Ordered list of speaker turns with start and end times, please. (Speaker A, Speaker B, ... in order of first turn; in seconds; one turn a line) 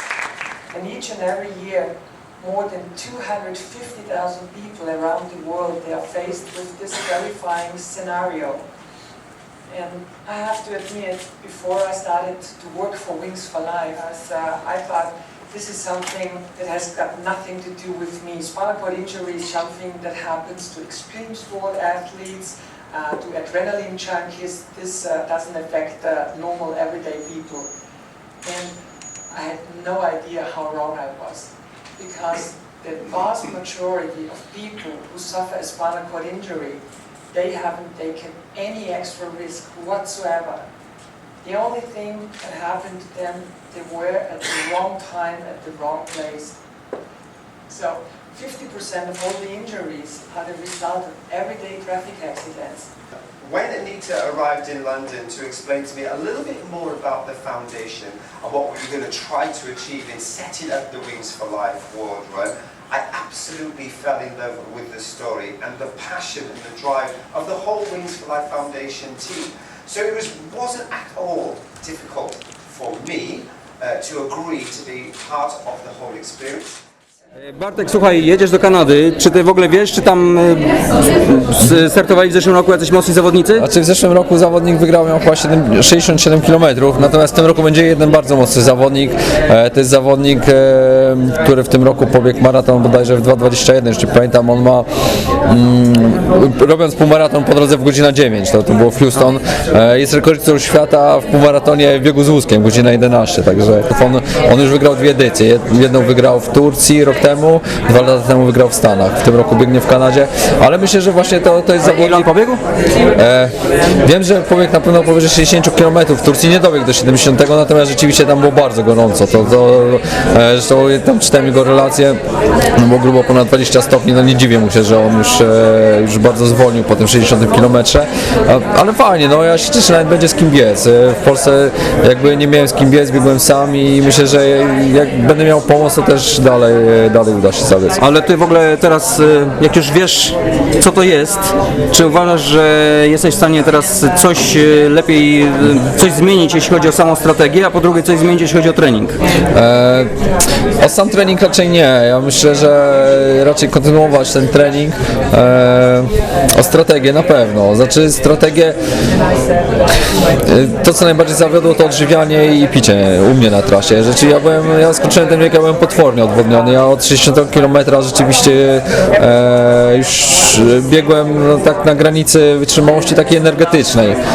Speaker A: 0.7-8.6
Speaker A: 9.7-27.7
Speaker A: 28.4-28.8
Speaker A: 29.3-40.6
Speaker A: 41.4-46.6
Speaker A: 47.7-52.9
Speaker B: 53.4-76.8
Speaker C: 77.4-83.7
Speaker D: 83.6-94.9
Speaker D: 95.5-112.3
Speaker C: 111.8-112.6
Speaker D: 113.2-122.2
Speaker D: 122.7-138.0
Speaker C: 138.0-149.2
Speaker D: 149.5-150.1
Speaker D: 150.8-158.8
Speaker D: 160.4-174.2